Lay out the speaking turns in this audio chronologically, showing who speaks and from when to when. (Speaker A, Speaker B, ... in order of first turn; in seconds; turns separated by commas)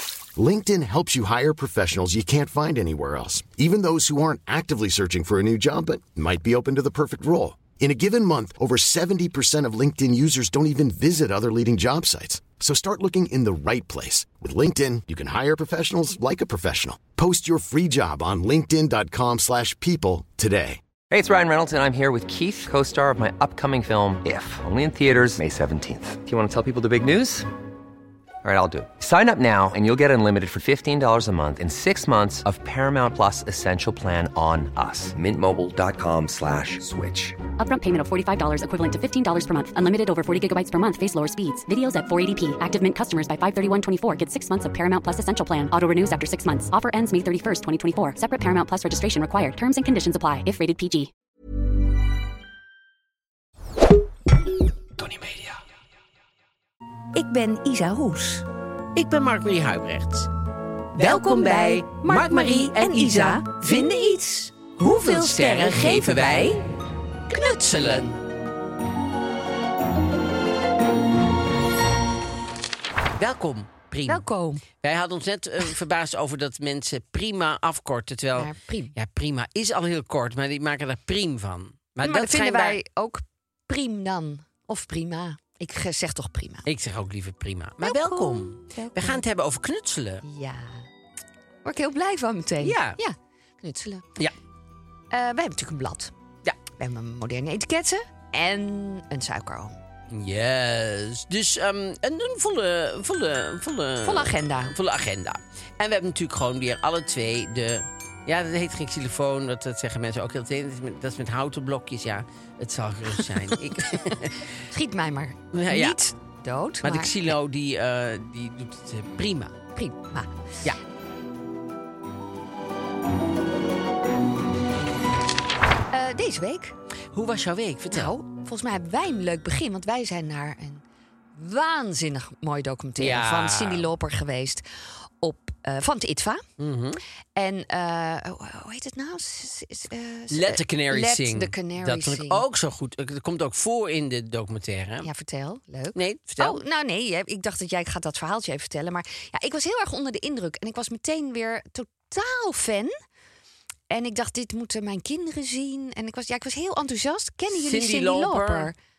Speaker A: 0.3-20.8, Speaker B: 21.1-27.5, Speaker B: 28.4-37.4, Speaker C: 37.6-51.1, Speaker D: 57.1-58.4, Speaker E: 58.9-60.3, Speaker E: 61.0-66.6, Speaker D: 61.0-66.6, Speaker E: 67.3-68.2, Speaker D: 67.7-68.0, Speaker E: 73.2-82.8, Speaker D: 74.1-74.6, Speaker D: 78.3-78.9, Speaker D: 82.0-86.7, Speaker E: 86.7-90.2, Speaker D: 87.8-89.2, Speaker D: 90.2-90.9, Speaker D: 91.6-94.0, Speaker E: 92.6-93.0, Speaker D: 95.1-96.1, Speaker D: 96.8-99.8, Speaker E: 100.1-114.5, Speaker D: 104.0-104.7, Speaker D: 114.7-117.2, Speaker E: 115.5-116.0, Speaker E: 116.8-119.5, Speaker D: 119.7-120.7, Speaker D: 125.9-126.7, Speaker E: 127.1-128.1, Speaker D: 127.9-136.4, Speaker E: 133.0-133.9, Speaker E: 136.6-137.0, Speaker D: 137.3-142.4, Speaker E: 140.3-145.1, Speaker D: 145.0-152.9, Speaker E: 145.9-146.6, Speaker D: 153.9-158.7, Speaker E: 157.5-158.7